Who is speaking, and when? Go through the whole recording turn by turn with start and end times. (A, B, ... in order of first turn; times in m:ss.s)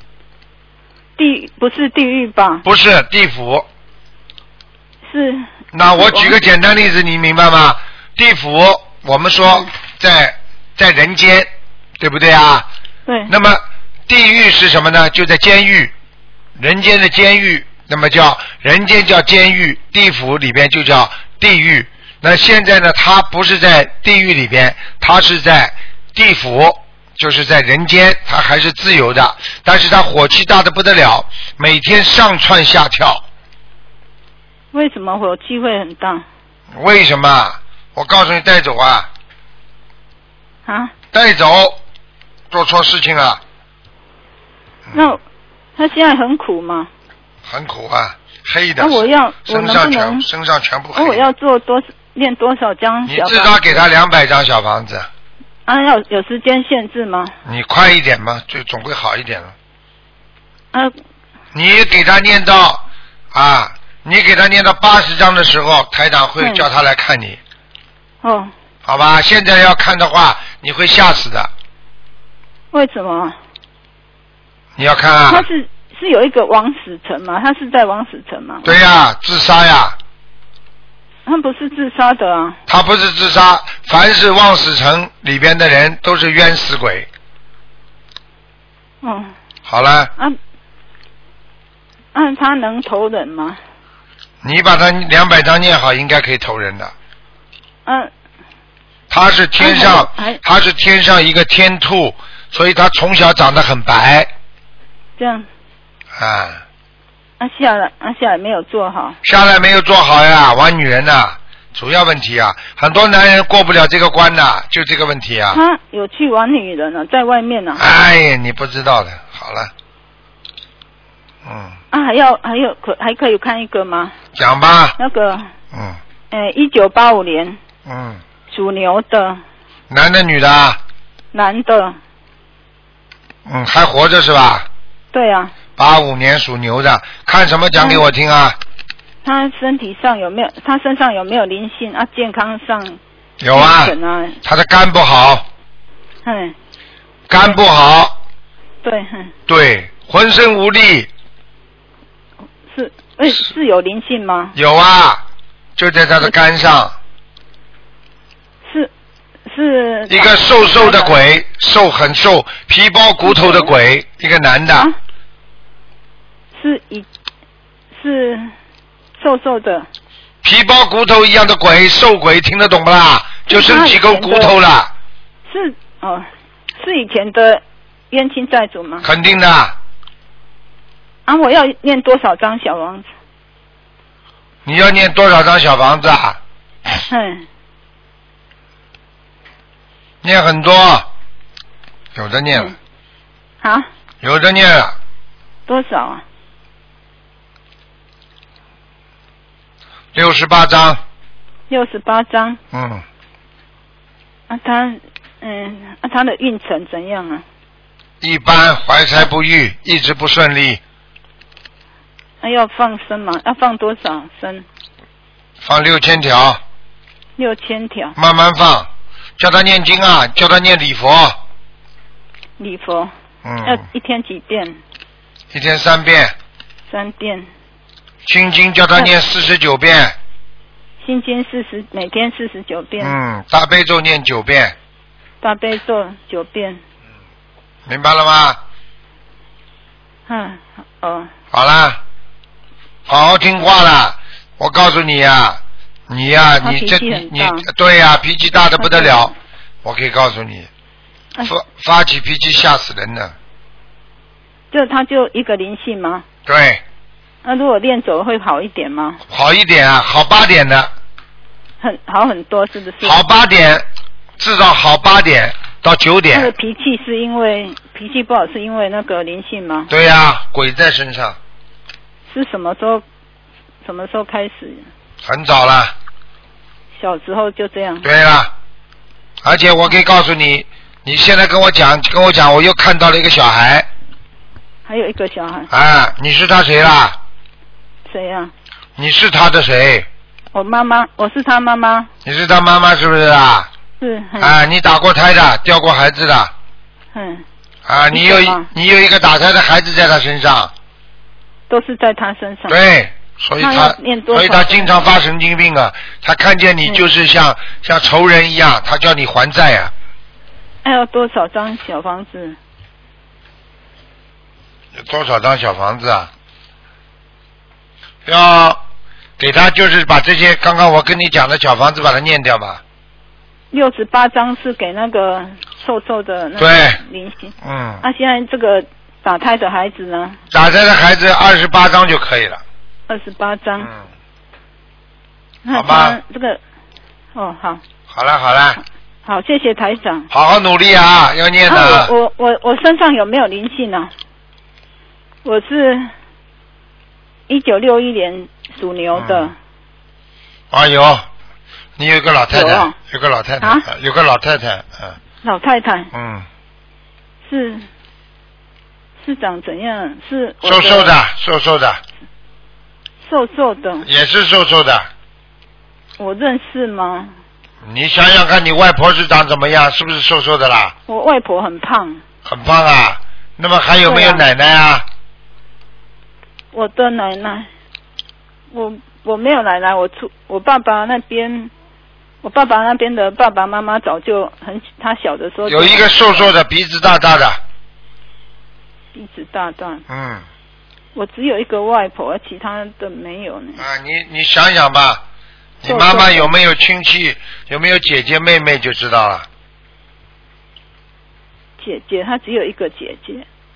0:01.2-0:02.6 A
0:02.6-0:03.7 B
0:05.1-0:06.4 A
0:05.7-0:12.7 B
0:13.1-0:13.3 A
0:13.3-0:15.9 B
0:16.6-0:33.2 B
0:34.7-0:36.2 A
0:36.7-0:39.1 B
0:40.7-0:40.9 A
0:41.1-0:41.8 B
0:42.5-0:43.4 B
0:44.9-0:45.1 B
0:44.9-0:45.2 A
0:45.8-0:46.9 A
0:47.5-0:51.3 B
0:48.8-0:50.3 A
0:51.0-0:53.8 A
0:53.1-0:55.1 B
0:55.7-0:57.3 A
0:57.4-0:59.5 B
1:01.5-1:07.4 B
1:06.4-1:06.7 A
1:08.2-1:08.5 A
1:08.8-1:11.5 B
1:12.7-1:13.4 A
1:14.8-1:15.5 B
1:15.3-1:18.7 A
1:18.6-1:20.0 B
1:21.3-1:22.6 A
1:22.7-1:27.1 B
1:29.0-1:29.3 A
1:29.7-1:30.1 B
1:32.1-1:33.6 A
1:34.4-1:36.9 B
1:37.9-1:38.1 A
1:39.1-1:44.3 B
1:39.6-1:40.4 A
1:45.2-1:45.5 A
1:46.2-1:46.6 B
1:47.4-1:49.2 A
1:49.2-1:55.6 B
1:55.5-1:57.8 A
1:57.8-1:59.7 B
2:01.4-2:01.8 B
2:01.9-2:04.1 A
2:04.4-2:05.0 B
2:05.0-2:05.5 A
2:05.7-2:06.0 B
2:06.3-2:07.6 A
2:07.8-2:08.2 B
2:08.5-2:09.4 A
2:09.9-2:10.8 B
2:11.3-2:12.0 A
2:13.5-2:14.7 B
2:15.1-2:15.5 A
2:15.8-2:18.6 B
2:17.8-2:18.0 A
2:19.2-2:23.0 A
2:23.4-2:25.4 B
2:23.5-2:24.4 A
2:26.2-2:26.6 A
2:27.3-2:28.2 B
2:28.8-2:29.3 A
2:29.5-2:31.1 B
2:32.7-2:34.6 A
2:34.6-2:35.2 B
2:35.8-2:37.0 B
2:38.7-2:38.9 A
2:39.5-2:41.2 A
2:40.1-2:44.9 B
2:43.2-2:43.7 A
2:46.6-2:47.1 A
2:47.9-2:48.5 A
2:49.2-2:49.9 A
2:50.4-2:54.9 B
2:53.5-2:54.5 A
2:55.5-2:59.1 A
2:59.0-2:59.8 B
3:01.3-3:03.1 A
3:04.7-3:06.4 B
3:07.1-3:07.5 A
3:10.2-3:11.1 B
3:12.2-3:12.7 B
3:13.6-3:13.9 A
3:14.2-3:15.0 B
3:15.7-3:16.2 A
3:20.1-3:21.0 B
3:21.7-3:22.6 A
3:22.7-3:23.0 B
3:24.5-3:27.4 A
3:28.2-3:30.8 B
3:32.4-3:34.6 A
3:35.6-3:36.6 B
3:37.4-3:38.2 A
3:38.2-3:41.4 B
3:42.6-3:43.1 A
3:43.4-3:43.8 B
3:43.6-3:44.8 A
3:45.5-3:46.3 B
3:46.9-3:47.5 A
3:48.3-3:50.2 B
3:51.0-3:53.2 A
3:53.0-3:54.8 B
3:55.4-3:56.8 A
3:57.9-3:58.6 B
4:00.3-4:01.3 A
4:01.5-4:02.0 B
4:03.1-4:09.3 B
4:06.6-4:07.7 A
4:08.8-4:09.3 A
4:09.8-4:10.7 B
4:11.4-4:13.3 B
4:14.7-4:16.2 A
4:16.5-4:16.8 B
4:17.4-4:19.2 A
4:19.3-4:20.9 B
4:21.8-4:23.2 A
4:23.0-4:23.8 B
4:24.4-4:26.5 B
4:26.3-4:29.9 A
4:29.9-4:31.4 B
4:32.3-4:33.0 A
4:33.8-4:34.9 A
4:35.2-4:35.9 B
4:37.0-4:38.1 A
4:38.0-4:38.5 B
4:39.4-4:43.9 B
4:44.9-4:45.7 A
4:45.7-4:47.2 B
4:48.1-4:48.5 A
4:49.0-4:50.1 B
4:50.5-4:52.1 A
4:52.2-4:53.7 B
4:54.0-4:54.6 A
4:54.4-4:56.5 B
4:57.1-4:57.4 A
4:57.9-5:00.7 B
4:58.1-4:58.7 A
5:01.7-5:02.8 A
5:02.7-5:09.9 B
5:03.6-5:05.1 A
5:10.8-5:12.6 A
5:15.0-5:16.3 B
5:18.3-5:18.8 B
5:19.4-5:22.8 B
5:23.7-5:30.4 A
5:26.6-5:27.0 B
5:27.6-5:28.0 B
5:30.5-5:32.6 B
5:33.1-5:33.9 A
5:35.6-5:36.6 A
5:35.7-5:36.2 B
5:37.4-5:37.8 A
5:38.1-5:38.8 B
5:39.2-5:40.3 A
5:40.3-5:42.1 B
5:41.7-5:44.1 A
5:45.4-5:46.1 A
5:47.5-5:49.6 A
5:49.1-5:49.5 B
5:50.7-5:51.3 B
5:52.0-5:55.2 B
5:52.5-5:52.9 A
5:53.6-5:53.9 A
5:55.4-5:56.1 A
5:56.1-5:56.5 B
5:57.4-5:57.9 A
5:59.2-6:01.2 A
6:00.6-6:02.0 B
6:03.2-6:04.1 A
6:04.0-6:05.1 B
6:06.2-6:07.3 A
6:07.8-6:10.9 B
6:11.1-6:12.2 A
6:12.4-6:15.1 B
6:14.0-6:14.4 A
6:16.7-6:17.7 A
6:18.7-6:21.7 A
6:22.4-6:26.5 A
6:25.7-6:27.6 B
6:29.1-6:30.0 A
6:30.1-6:30.4 B
6:31.1-6:33.8 A
6:33.8-6:35.2 B
6:35.8-6:39.5 B
6:35.9-6:36.5 A
6:41.8-6:43.5 A